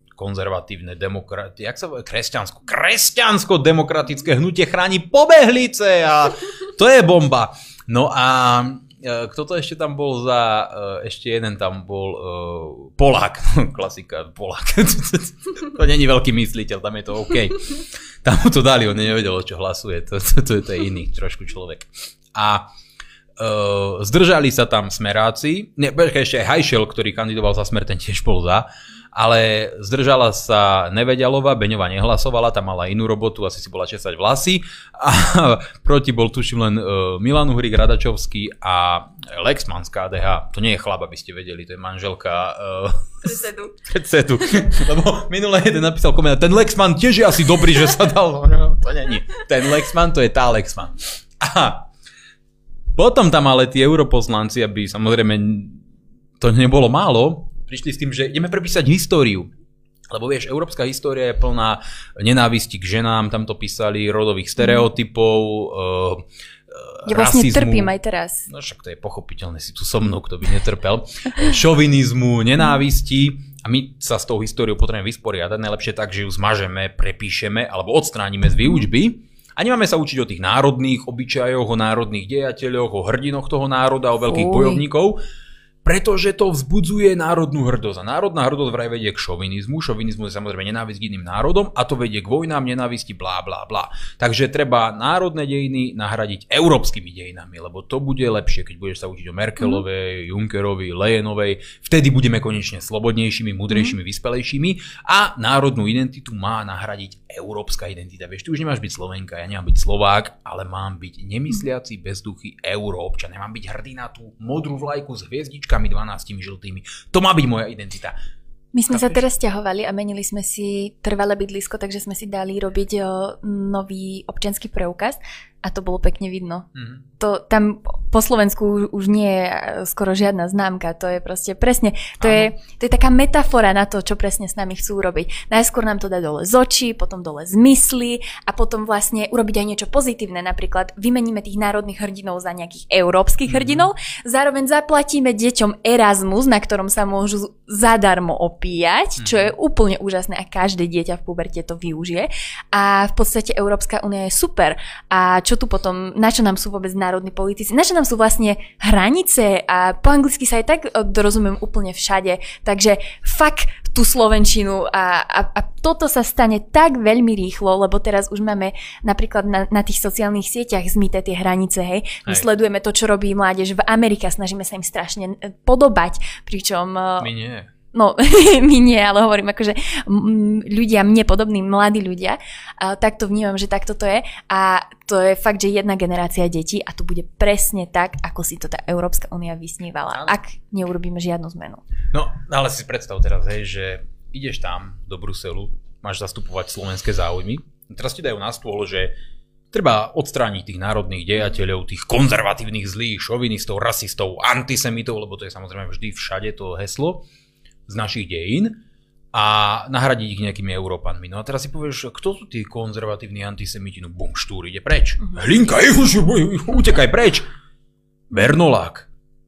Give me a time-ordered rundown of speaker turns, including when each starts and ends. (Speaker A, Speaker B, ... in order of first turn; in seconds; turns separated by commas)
Speaker A: 0.2-22.6, Speaker A: 23.4-51.9, Speaker A: 53.0-55.8, Speaker A: 56.4-59.5, Speaker A: 60.1-67.9, Speaker B: 67.1-68.5, Speaker A: 68.5-85.2, Speaker B: 84.3-84.8, Speaker A: 85.8-118.2, Speaker B: 118.7-126.7, Speaker A: 118.9-119.2, Speaker A: 126.8-127.0, Speaker B: 127.2-177.3, Speaker A: 132.2-132.5, Speaker A: 143.5-143.9, Speaker A: 149.2-149.5, Speaker A: 177.2-177.7, Speaker B: 177.9-191.8, Speaker A: 190.1-190.4, Speaker A: 192.1-199.1, Speaker A: 199.7-207.2, Speaker A: 207.9-208.8, Speaker A: 209.3-217.5, Speaker A: 218.3-219.1